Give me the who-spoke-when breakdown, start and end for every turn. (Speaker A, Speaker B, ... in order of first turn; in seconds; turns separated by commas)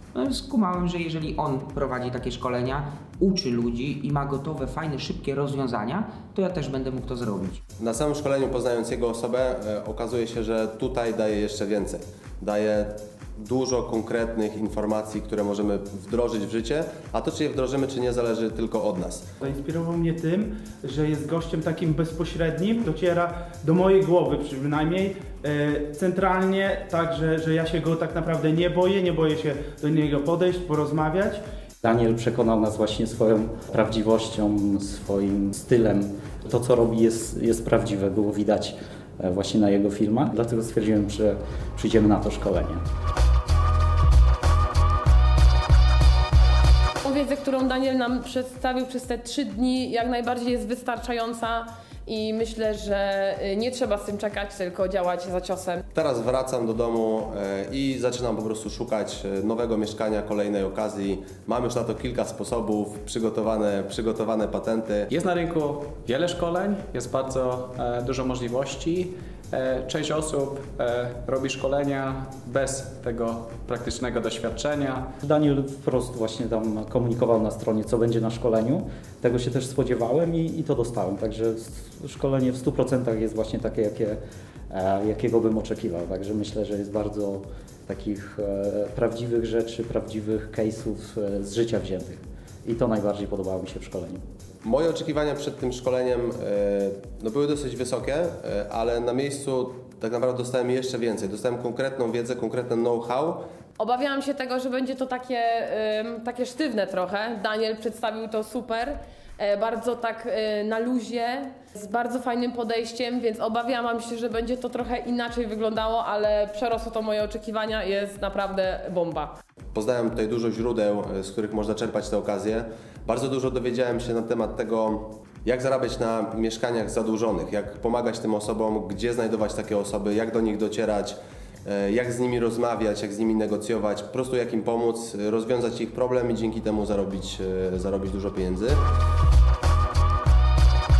Speaker A: 0.1-7.6, Speaker B: 7.8-19.3, Speaker C: 19.4-31.4, Speaker D: 31.8-42.8, Speaker E: 47.0-55.8, Speaker B: 55.9-65.1, Speaker F: 65.1-75.1, Speaker D: 75.2-84.2, Speaker D: 84.7-94.2, Speaker B: 94.6-103.4, Speaker E: 103.8-119.3, Speaker B: 119.7-138.8